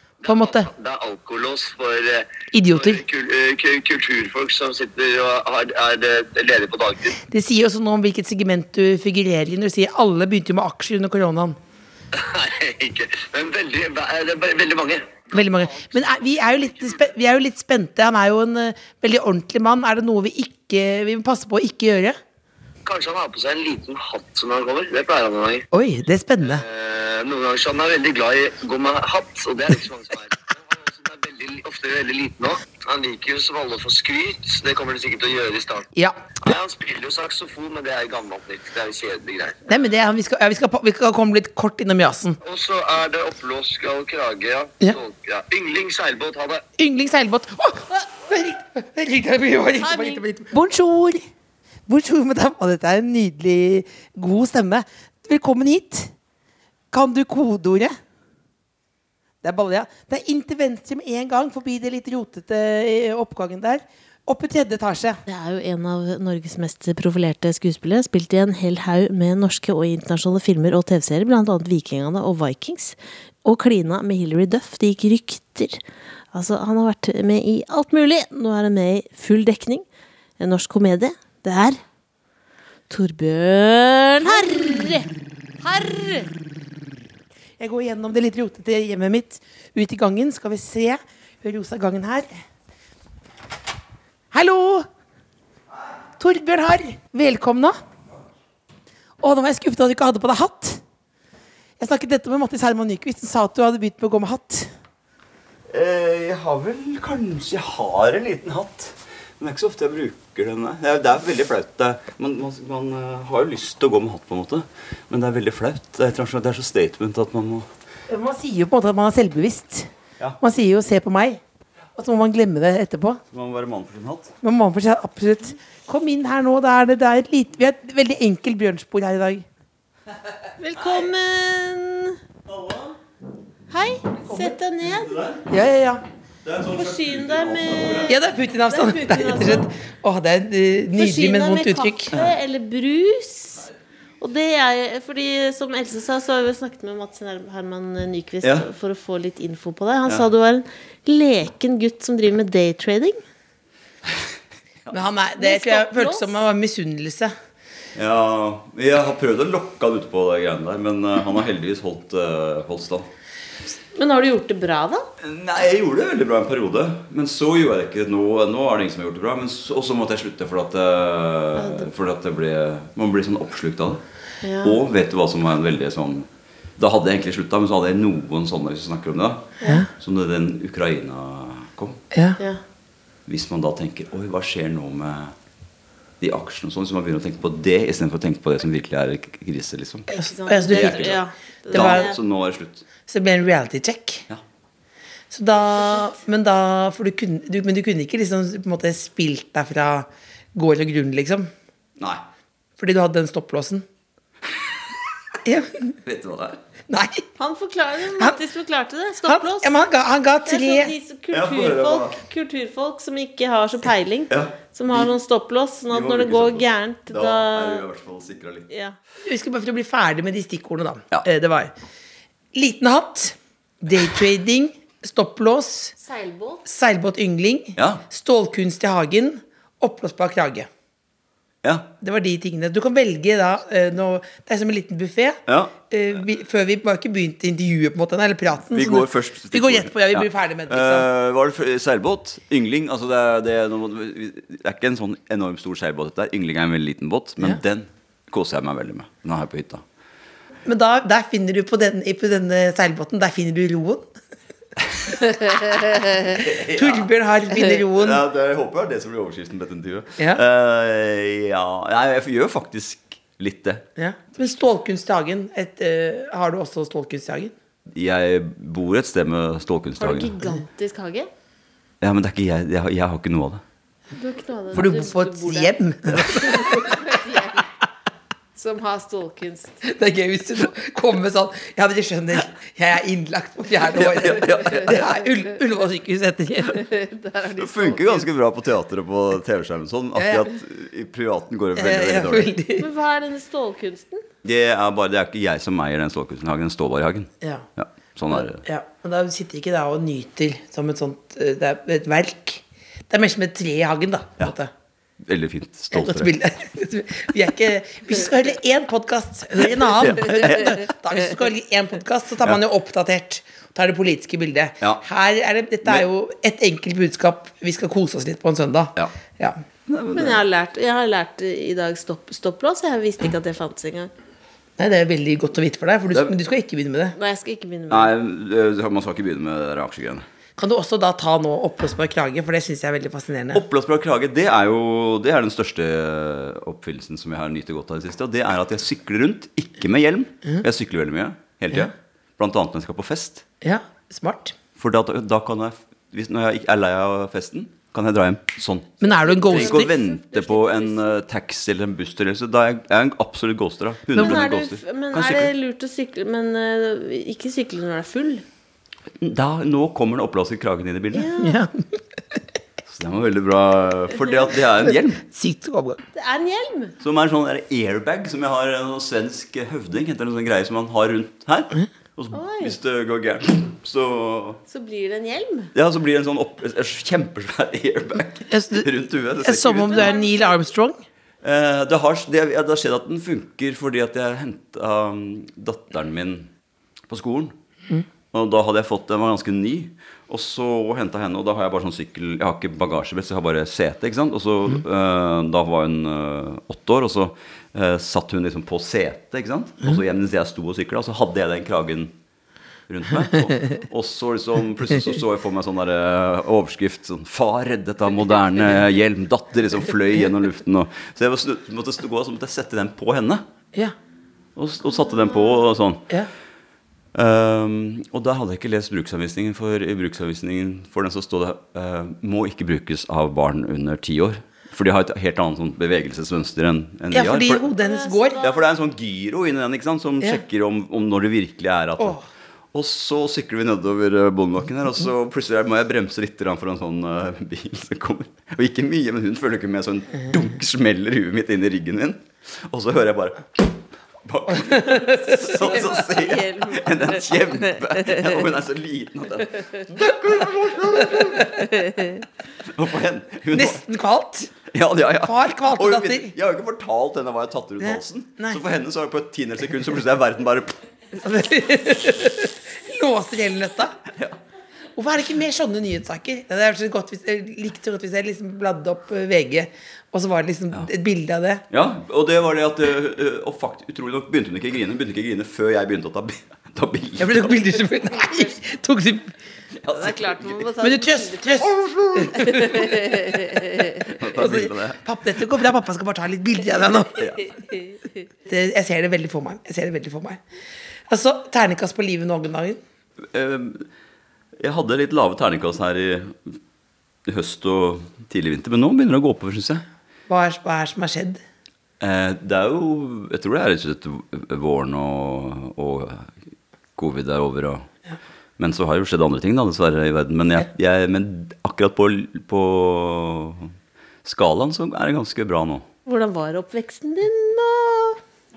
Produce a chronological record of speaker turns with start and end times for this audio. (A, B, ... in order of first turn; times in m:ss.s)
0:00.2-0:07.2 A
0:00.2-0:00.7 B
0:02.5-0:03.0 B
0:07.2-0:11.6 B
0:12.1-0:16.0 A
0:15.3-0:22.2 B
0:16.7-0:17.0 A
0:22.8-0:25.6 A
0:25.7-0:26.6 B
0:26.4-0:39.6 A
0:35.9-0:36.4 B
0:39.7-0:42.4 B
0:42.4-0:46.6 A
0:46.8-0:51.3 B
0:49.8-0:50.2 C
0:51.9-0:56.1 B
0:56.9-0:57.9 B
0:59.4-1:05.2 B
1:05.3-1:15.8 C
1:16.3-1:19.8 C
1:20.4-1:21.8 C
1:22.9-1:25.1 C
1:25.6-1:26.3 C
1:27.6-1:32.3 B
1:34.3-1:34.9 B
1:36.2-1:37.8 B
1:39.2-1:40.8 B
1:41.8-1:44.7 B
1:45.7-1:57.7 D
1:58.1-2:01.4 B
2:02.0-2:03.2 B
2:03.3-2:04.3 D
2:04.4-2:09.4 B
2:10.6-2:12.2 C
2:12.5-2:12.9 D
2:13.7-2:15.2 C
2:14.9-2:15.5 D
2:15.5-2:16.0 B
2:16.4-2:18.2 D
2:16.7-2:19.6 C
2:18.1-2:22.1 B
2:21.0-2:23.6 C
2:24.2-2:33.2 C
2:34.9-2:37.3 B
2:35.4-2:36.3 C
2:37.9-2:43.1 D
2:43.9-2:45.0 C
2:45.2-2:54.0 D
2:51.6-2:51.9 C
2:54.4-2:54.8 C
2:54.6-2:56.2 D
2:56.8-3:02.0 D
3:02.1-3:02.4 B
3:03.3-3:05.3 D
3:06.2-3:10.1 D
3:10.1-3:11.1 B
3:10.1-3:12.2 C
3:10.7-3:11.2 D
3:11.7-3:12.1 B
3:11.7-3:12.8 D
3:13.1-3:14.2 B
3:15.3-3:21.5 B
3:22.8-3:23.8 B
3:25.4-3:25.9 B
3:26.0-3:26.6 D
3:26.9-3:27.2 B
3:27.4-3:29.7 C
3:29.2-3:30.9 B
3:30.4-3:37.8 C
3:31.3-3:32.2 D
3:34.3-3:35.1 D
3:35.9-3:38.7 D
3:38.7-3:38.9 C
3:39.2-3:41.7 B
3:42.5-3:45.9 B
3:46.0-3:46.6 C
3:46.6-3:50.7 B
3:47.8-3:48.0 D
3:51.6-3:51.9 D
3:52.0-4:01.1 B
3:55.5-3:55.8 D
3:58.7-4:09.8 D
4:10.6-4:14.1 B
4:16.3-4:17.1 D
4:16.3-4:18.2 B
4:17.9-4:23.8 D
4:24.0-4:27.5 B
4:27.9-4:30.4 D
4:30.0-4:31.3 C
4:32.0-4:33.6 D
4:34.2-4:37.7 C
4:34.7-4:37.0 B
4:38.5-4:39.8 C
4:39.8-4:46.8 B
4:43.9-4:45.0 D
4:46.7-4:48.3 C
4:47.6-4:52.5 D
4:50.2-4:50.5 B
4:51.8-4:52.9 B
4:52.8-4:54.2 C
4:54.4-4:58.6 D
4:58.4-5:04.7 B
5:05.2-5:06.3 D
5:05.9-5:19.6 B
5:09.8-5:10.9 D
5:19.9-5:20.4 D
5:20.1-5:24.1 C
5:24.8-5:27.1 B
5:27.1-5:28.1 C
5:27.9-5:30.2 D
5:30.6-5:33.6 B
5:33.5-5:43.4 D
5:43.6-5:44.5 B
5:44.8-5:55.5 D
5:49.0-5:49.9 B
5:49.2-5:51.0 C
5:54.1-5:58.4 C
5:54.2-5:54.4 B
5:59.2-6:01.3 D
6:01.1-6:01.6 C
6:01.4-6:01.8 B
6:02.9-6:05.2 D
6:05.3-6:06.0 B
6:06.1-6:06.9 C
6:07.0-6:14.6 D
6:12.3-6:12.8 C
6:14.7-6:15.7 C
6:15.7-6:20.1 D
6:18.5-6:21.0 B
6:19.9-6:20.6 C
6:21.4-6:26.5 D
6:27.1-6:27.5 D
6:28.3-6:42.1 D
6:42.9-6:53.4 D
6:54.6-6:56.1 D
6:57.1-7:07.7 D
7:07.1-7:08.4 B
7:07.7-7:08.6 C
7:08.4-7:12.2 D
7:12.7-7:32.0 D
7:24.5-7:25.6 B
7:25.9-7:27.2 C
7:32.6-7:33.8 D
7:33.5-7:34.5 B
7:34.7-7:40.8 D
7:35.2-7:36.3 B
7:37.8-7:38.6 B
7:41.2-7:44.0 B
7:45.0-7:51.6 B
7:51.7-7:57.6 D
7:57.2-7:59.3 B
7:59.8-8:00.7 D
7:59.9-8:01.6 C
8:00.8-8:03.0 B
8:01.7-8:02.6 D
8:02.3-8:04.1 C
8:04.0-8:05.0 D
8:04.3-8:07.3 B
8:07.2-8:07.4 D
8:07.6-8:08.1 C
8:08.4-8:10.4 B
8:11.1-8:12.8 B
8:13.3-8:13.9 D
8:14.6-8:16.6 D
8:17.2-8:19.8 D
8:20.3-8:21.4 B
8:22.0-8:26.3 D
8:27.0-8:27.9 D
8:28.6-8:33.7 D
8:34.2-8:35.8 D
8:36.0-8:38.2 C